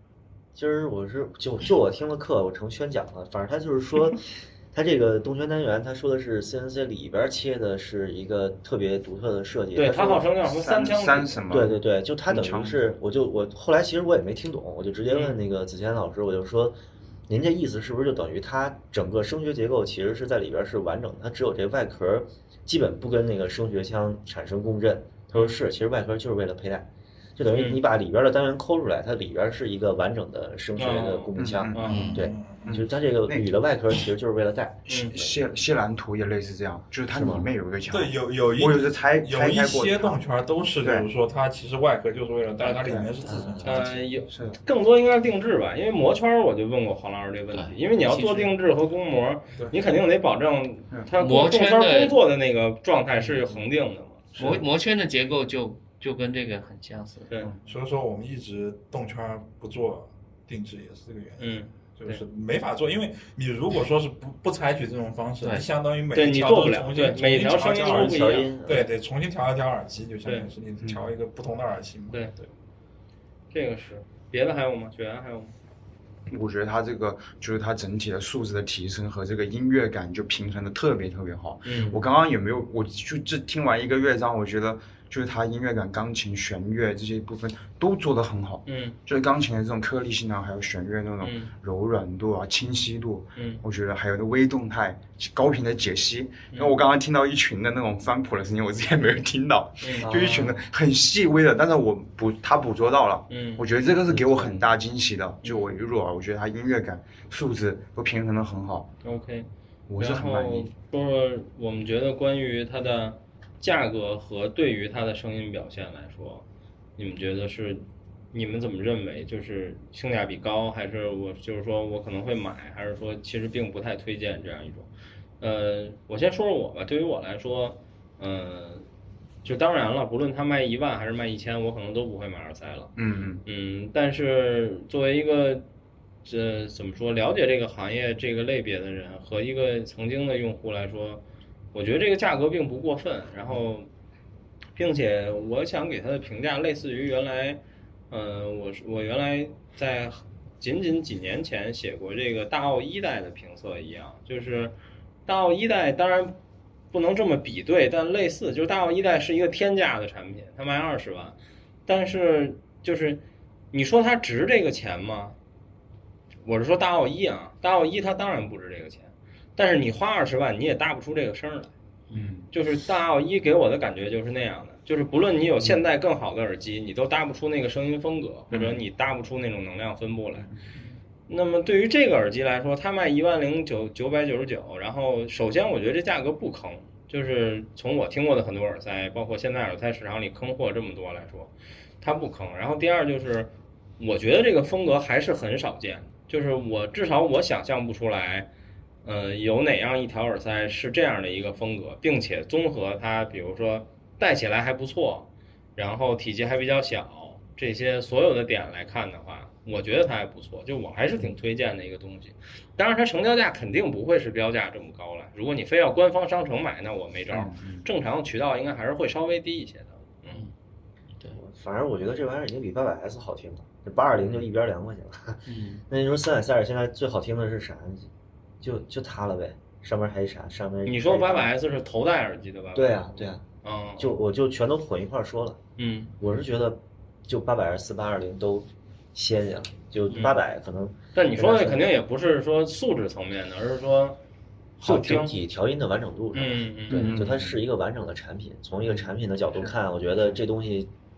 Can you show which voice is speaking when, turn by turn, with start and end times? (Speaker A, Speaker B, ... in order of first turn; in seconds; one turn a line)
Speaker A: 0.6-10.3
Speaker B: 9.8-11.5
Speaker C: 10.4-12.9
Speaker A: 11.5-35.4
Speaker B: 15.1-15.4
Speaker B: 27.6-27.8
Speaker B: 30.8-32.1
Speaker C: 31.4-32.0
Speaker D: 31.8-32.3
Speaker E: 32.0-32.7
Speaker C: 32.6-33.5
Speaker B: 34.9-35.1
Speaker C: 35.0-40.2
Speaker A: 37.1-37.5
Speaker E: 37.9-44.1
Speaker C: 42.6-43.1
Speaker A: 43.3-43.8
Speaker B: 43.6-54.4
Speaker C: 44.3-44.6
Speaker D: 47.5-48.5
Speaker D: 51.2-52.2
Speaker D: 54.4-57.3
Speaker C: 57.4-57.6
Speaker E: 57.7-72.5
Speaker B: 61.4-62.2
Speaker B: 66.1-68.9
Speaker A: 67.7-68.9
Speaker B: 73.5-75.5
Speaker C: 76.3-108.9
Speaker B: 81.7-82.0
Speaker B: 88.7-89.0
Speaker B: 91.2-91.5
Speaker B: 93.4-93.6
Speaker B: 96.5-96.8
Speaker B: 99.8-100.1
Speaker A: 100.0-100.6
Speaker B: 103.3-103.7
Speaker A: 104.1-104.6
Speaker B: 109.0-116.5
Speaker C: 109.9-110.7
Speaker B: 117.0-124.9
Speaker B: 125.4-128.9
Speaker B: 129.4-132.9
Speaker C: 133.0-133.4
Speaker B: 133.4-135.7
Speaker B: 136.2-141.2
Speaker B: 141.7-143.9
Speaker B: 144.8-154.8
Speaker B: 155.3-156.4
Speaker B: 156.9-165.4
Speaker B: 166.4-171.7
Speaker C: 172.1-172.5
Speaker B: 172.5-180.5
Speaker C: 178.5-178.8
Speaker B: 181.3-198.5
Speaker B: 199.0-220.5
Speaker C: 217.3-217.9
Speaker A: 221.3-228.1
Speaker D: 225.5-225.8
Speaker A: 228.6-231.5
Speaker B: 230.8-234.2
Speaker A: 232.7-233.4
Speaker A: 234.0-235.6
Speaker B: 235.8-236.2
Speaker A: 236.2-241.8
Speaker B: 240.1-240.4
Speaker B: 241.2-244.2
Speaker B: 244.8-245.3
Speaker A: 244.8-250.9
Speaker B: 246.3-247.2
Speaker C: 246.9-247.6